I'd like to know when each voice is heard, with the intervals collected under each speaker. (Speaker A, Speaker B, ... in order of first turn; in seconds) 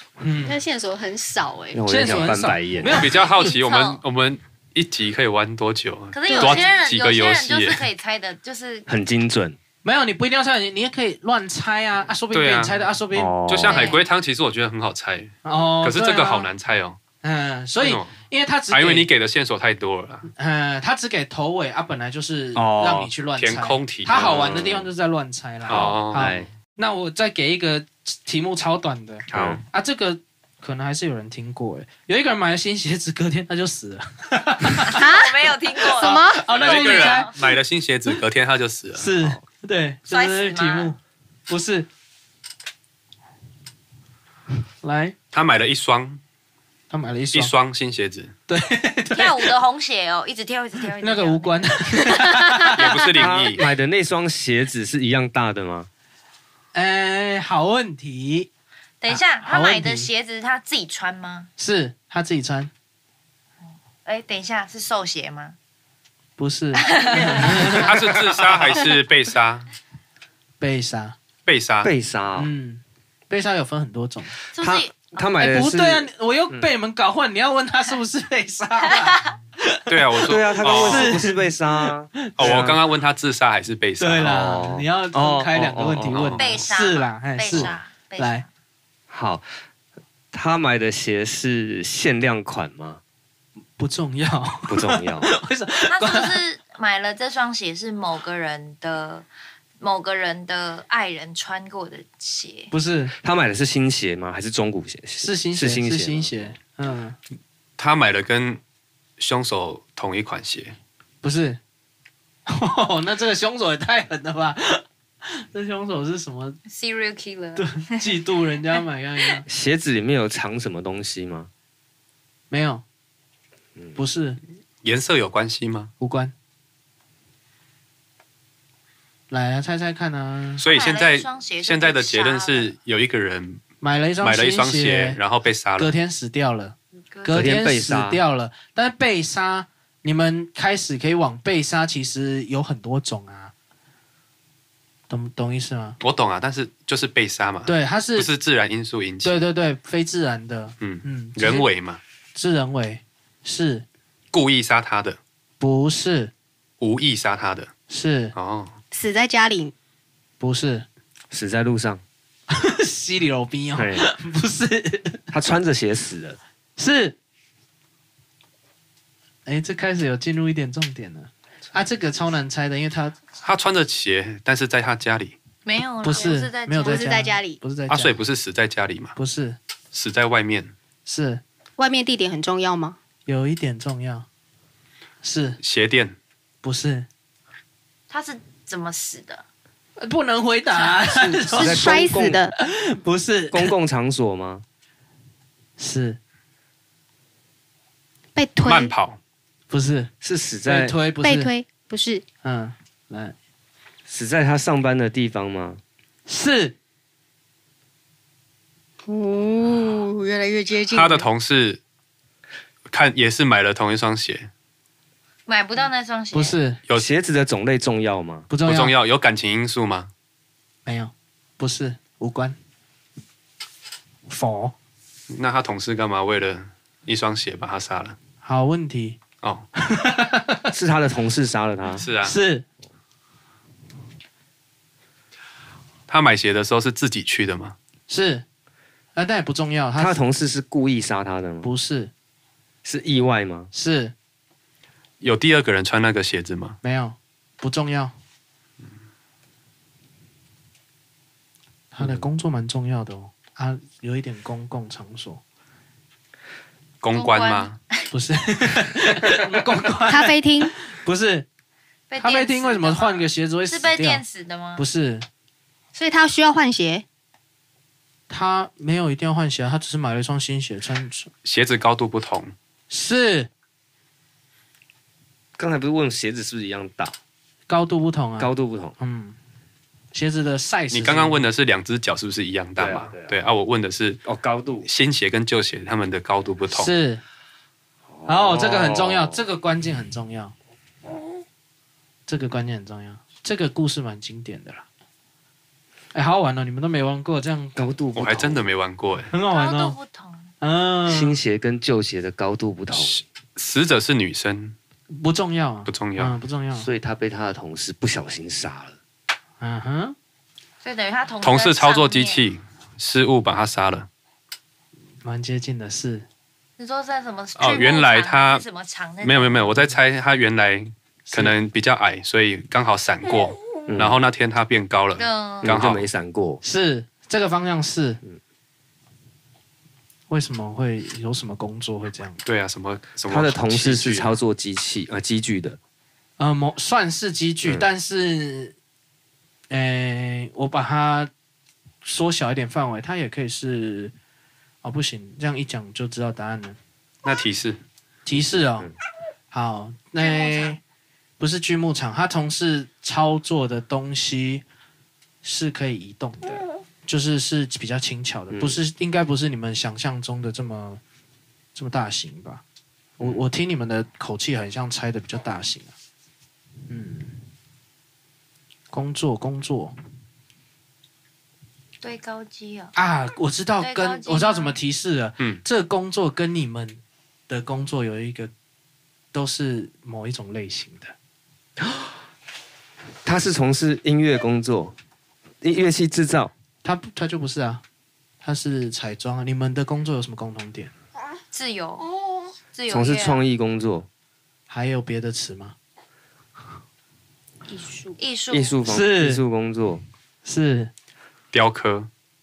Speaker A: 0.2-0.6, 1.9-3.1, 9.8-13.3, 15.4-16.5, 17.2-19.1, 20.3-35.1, 35.8-37.4, 39.0-41.9, 44.8-45.1, 46.9-47.5, 48.5-49.5, 51.0-53.1, 56.7-58.5, 59.1-60.1, 61.6-62.7, 66.4-68.0, 70.6-71.2, 72.4-74.3, 75.4-82.6, 84.0-88.4, 93.8-96.4, 102.7-103.1, 105.2-107.2, 111.2-111.6, 112.5-116.6, 117.5-119.5, 122.5-122.8, 123.9-124.4, 126.0-126.3, 129.3-130.6, 133.8-135.2, 135.8-143.5, 145.1-146.0, 147.7-148.3, 149.2-151.7, 152.3-153.8, 155.6-156.3, 157.9-158.3, 160.4-160.8, 162.5-165.2, 166.8-167.2, 169.4-173.2, 176.0-178.2, 179.2-179.6, 181.1-181.4, 183.2-184.2, 185.2-185.6, 186.6-187.1, 190.0-193.7, 195.8-196.2, 199.7-200.1, 200.6-201.5, 202.4-203.3, 206.3-206.7, 216.3-216.8, 218.5-218.9, 220.8-222.6, 224.3-224.7, 228.4-229.2, 229.8-230.7, 232.2-232.6, 238.1-238.4, 239.1-240.2, 241.6-242.1, 243.7-244.1, 246.8-248.1, 251.9-255.4, 258.1-261.4, 262.2-264.2, 264.8-265.2, 268.3-271.3, 272.9-273.5, 277.7-279.4, 280.1-281.4, 286.7-287.2, 288.2-290.5, 292.3-294.8, 296.1-297.8, 299.3-300.0, 300.6-301.4, 305.1-306.9, 309.6-310.1, 315.2-316.2, 321.3-321.6, 326.6-328.2, 330.3-332.4, 336.4-338.7, 339.7-341.3, 342.0-344.1, 344.8-346.8, 348.2-348.9, 349.5-350.8, 351.4-354.6, 355.4-361.0, 361.7-362.6, 363.2-365.9, 366.9-367.3, 368.9-369.9, 372.9-378.5, 379.3-381.1, 386.8-387.8, 388.4-390.9, 394.7-395.7, 398.8-399.4, 400.4-400.9
Speaker B: 0.4-1.8, 6.3-6.7, 34.9-35.4, 35.9-36.4, 158.9-159.7, 176.8-177.6, 181.8-182.9, 191.6-192.5, 198.3-198.9, 201.2-202.2, 209.1-211.3, 260.1-260.7, 265.9-267.0
Speaker C: 1.7-3.0, 8.9-9.6, 13.1-13.9, 22.5-23.1, 24.1-24.8, 25.7-26.5, 29.3-29.6, 53.1-55.9, 71.8-72.5, 74.6-76.7, 80.3-82.8, 84.2-86.4, 89.1-89.5, 90.3-93.0, 94.7-95.3, 103.2-106.3, 119.5-121.5, 137.3-138.2, 161.3-162.0, 163.8-164.0, 165.3-166.4, 191.4-192.4, 193.5-194.6, 200.2-201.0, 204.1-205.8, 216.9-218.5, 230.7-232.0, 240.0-241.7, 242.8-243.7, 275.6-277.1, 278.4-278.9, 282.8-283.3, 284.2-284.9, 288.1-289.4, 297.7-298.7, 301.1-303.2, 306.8-309.0, 323.9-324.2, 325.6-326.6, 333.3-335.8, 348.3-348.9, 358.5-358.8, 381.8-382.1, 383.2-384.9, 385.6-386.5, 392.9-394.1, 398.5-400.0
Speaker D: 2.9-7.8, 12.3-12.8, 13.5-17.0, 17.8-18.1, 18.7-20.3, 23.4-24.8, 25.7-26.4, 29.3-29.6, 36.5-39.1, 45.3-46.2, 47.3-48.3, 52.7-53.6, 67.7-69.7, 71.5-71.9, 79.9-81.2, 82.4-84.3, 86.1-86.7, 107.8-108.6, 109.2-110.8, 124.8-125.9, 130.6-133.6, 134.2-135.9, 146.0-149.4, 150.8-152.0, 154.3-155.2, 156.8-157.7, 158.3-158.7, 173.4-175.3, 177.9-179.2, 179.9-180.7, 185.6-186.2, 198.6-199.2, 210.9-211.8, 212.9-214.5, 218.6-220.1, 225.3-228.2, 231.9-232.3, 236.1-237.8, 245.2-246.8, 257.0-257.8, 271.4-272.5, 280.9-284.2, 284.8-286.9, 298.1-299.3, 302.9-304.8, 305.9-306.4, 311.4-314.1, 317.6-318.6, 319.2-326.1, 332.4-334.3, 347.2-347.8, 401.5-402.1
Speaker E: 3.1-4.0, 6.1-8.8, 13.7-14.0, 34.9-37.3, 40.1-40.9, 49.1-52.3, 59.0-61.5, 63.6-65.5, 66.7-68.0, 74.5-75.3, 78.9-79.3, 86.4-88.4, 95.9-99.2, 99.8-102.7, 116.7-118.2, 130.7-132.7, 137.1-137.4, 175.6-177.2, 188.1-189.4, 190.7-191.6, 215.5-216.6, 257.1-258.1, 262.1-264.8, 299.4-300.5, 310.8-312.4, 316.8-319.8, 325.2-325.8, 350.2-350.8, 372.0-372.9, 373.8-374.8, 391.5-392.1, 392.7-393.4, 397.7-398.8